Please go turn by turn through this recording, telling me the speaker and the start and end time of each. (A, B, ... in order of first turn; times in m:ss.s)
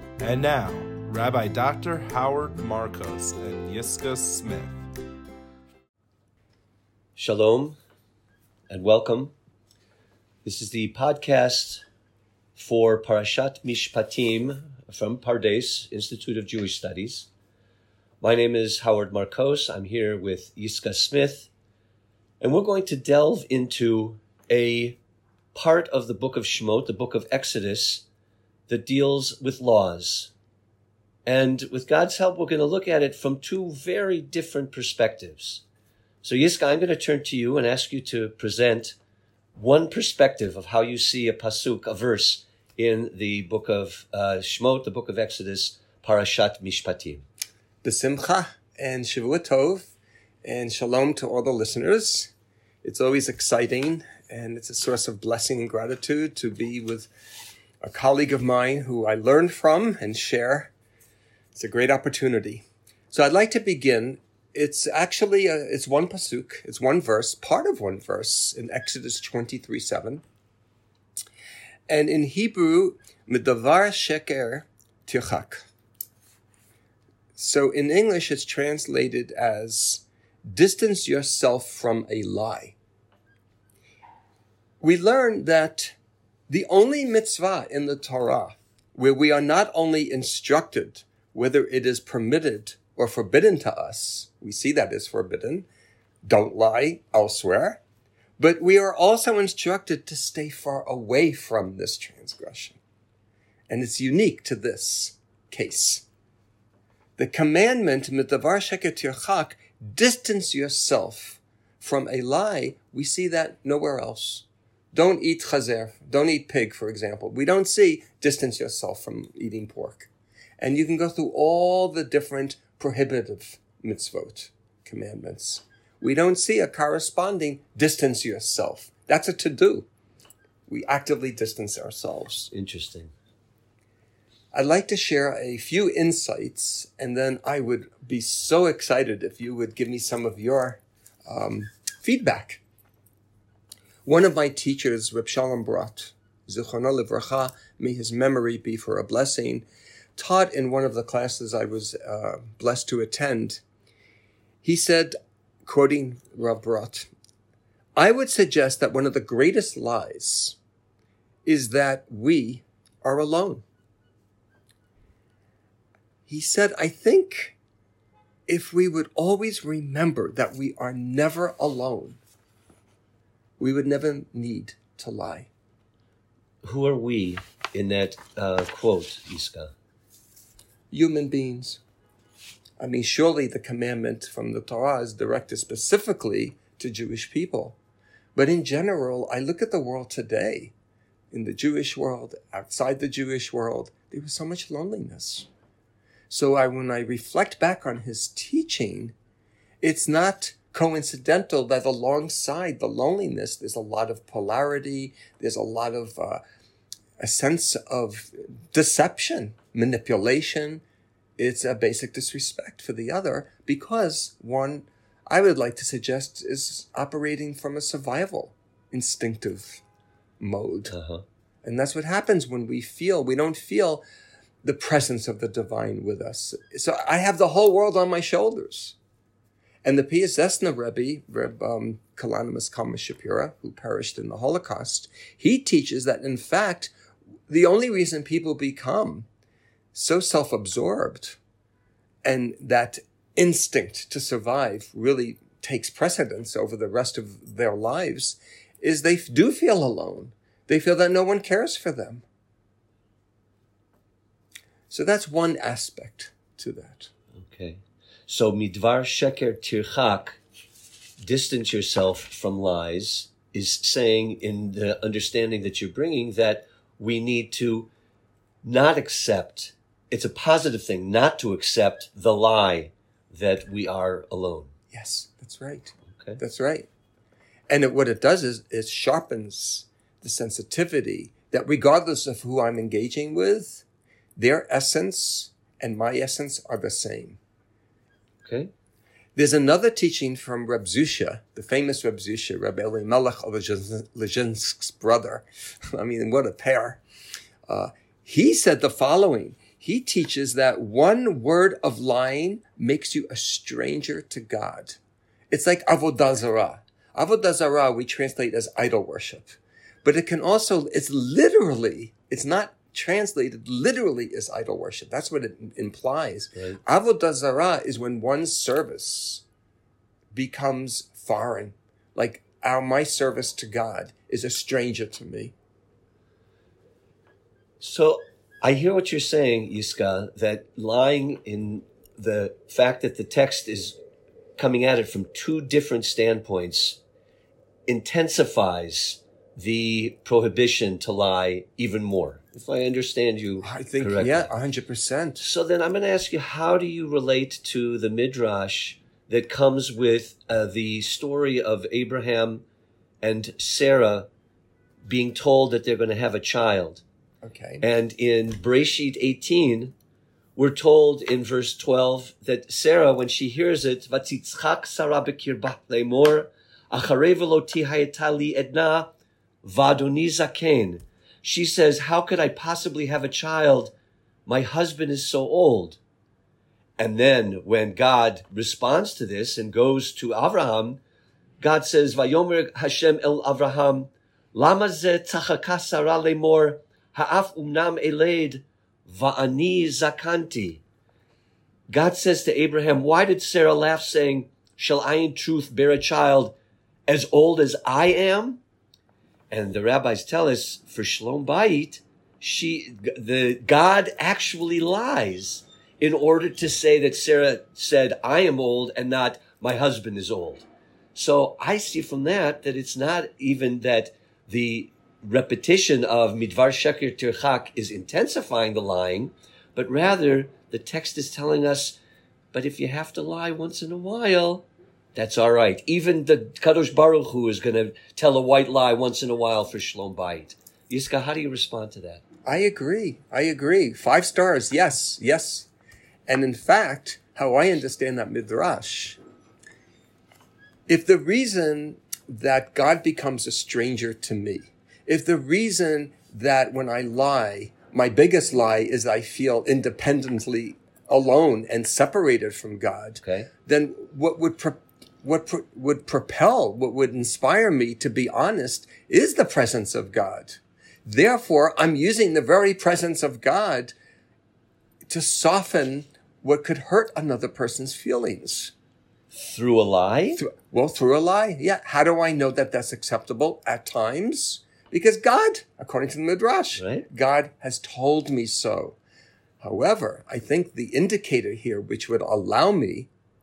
0:00.2-0:04.9 A
0:07.2-0:07.8 B
0:08.7-0:09.3 B
0:10.4-0:11.8 B
0:12.6-0:17.3 B
0:18.2-0:21.5 B
0:22.4-0:25.0 B
0:25.5-0:28.0 B
0:28.7-0:30.3 B
0:31.3-0:35.6 B
0:36.2-0:39.0 B
0:39.6-0:47.2 B
0:47.8-0:49.9 C
0:50.4-0:52.3 C
0:52.8-0:57.1 C
0:57.8-1:00.7 C
1:01.5-1:10.2 C
1:11.9-1:15.6 C
1:17.4-1:22.8 C
1:24.8-1:26.0 C
1:26.5-1:35.7 C
1:36.2-1:37.8 C
1:38.4-1:42.8 C
1:43.7-1:46.0 C
1:47.2-2:09.9 C
2:10.7-2:12.5 C
2:12.5-2:13.1 B
2:14.5-2:22.6 C
2:24.0-2:33.6 C
2:34.6-2:35.1 C
2:35.6-2:37.1 C
2:38.0-2:40.6 C
2:41.4-2:43.6 C
2:46.3-2:47.6 C
2:48.5-2:52.2 C
2:53.6-2:55.5 C
2:56.6-2:59.7 B
3:00.9-3:01.8 C
3:02.8-3:07.8 C
3:08.3-3:10.7 C
3:11.3-3:15.5 C
3:16.3-3:19.2 C
3:19.8-3:26.4 C
3:27.2-3:30.8 C
3:31.4-3:39.8 C
3:40.4-3:41.0 C
3:40.9-3:41.2 B
3:41.6-3:44.0 C
3:44.6-3:49.0 C
3:49.8-3:56.9 C
3:57.5-3:59.3 C
3:59.9-4:01.4 C
4:02.2-4:12.2 C
4:14.9-4:17.1 C
4:17.3-4:20.4 B
4:21.2-4:27.9 B
4:28.6-4:34.7 B
4:34.9-4:36.9 C
4:36.1-4:36.4 B
4:37.7-4:43.8 C
4:44.4-4:47.4 C
4:48.4-4:48.7 B
4:49.4-4:57.0 C
4:57.6-5:05.0 C
5:05.5-5:19.4 C
5:16.5-5:16.8 B
5:20.3-5:25.5 C
5:27.8-5:34.0 B
5:34.6-5:37.0 B
5:37.9-5:44.5 B
5:43.6-5:45.4 C
5:45.4-5:52.6 B
5:53.2-5:54.3 B
5:55.1-5:57.0 B
5:57.4-5:57.8 C
5:57.8-5:59.9 B
6:00.6-6:09.1 B
6:09.6-6:13.9 B
6:14.4-6:16.0 B
6:17.0-6:21.0 B
6:21.6-6:30.8 B
6:31.9-6:36.6 B
6:37.1-6:38.6 B
6:39.5-7:02.0 B
7:02.5-7:12.2 B
7:12.4-7:15.7 C
7:16.3-7:19.2 C
7:20.9-7:43.9 C
7:33.2-7:33.5 B
7:45.1-7:48.7 C
7:49.3-7:50.4 B
7:50.3-7:59.0 C
7:56.8-7:57.1 B
7:59.6-8:03.1 C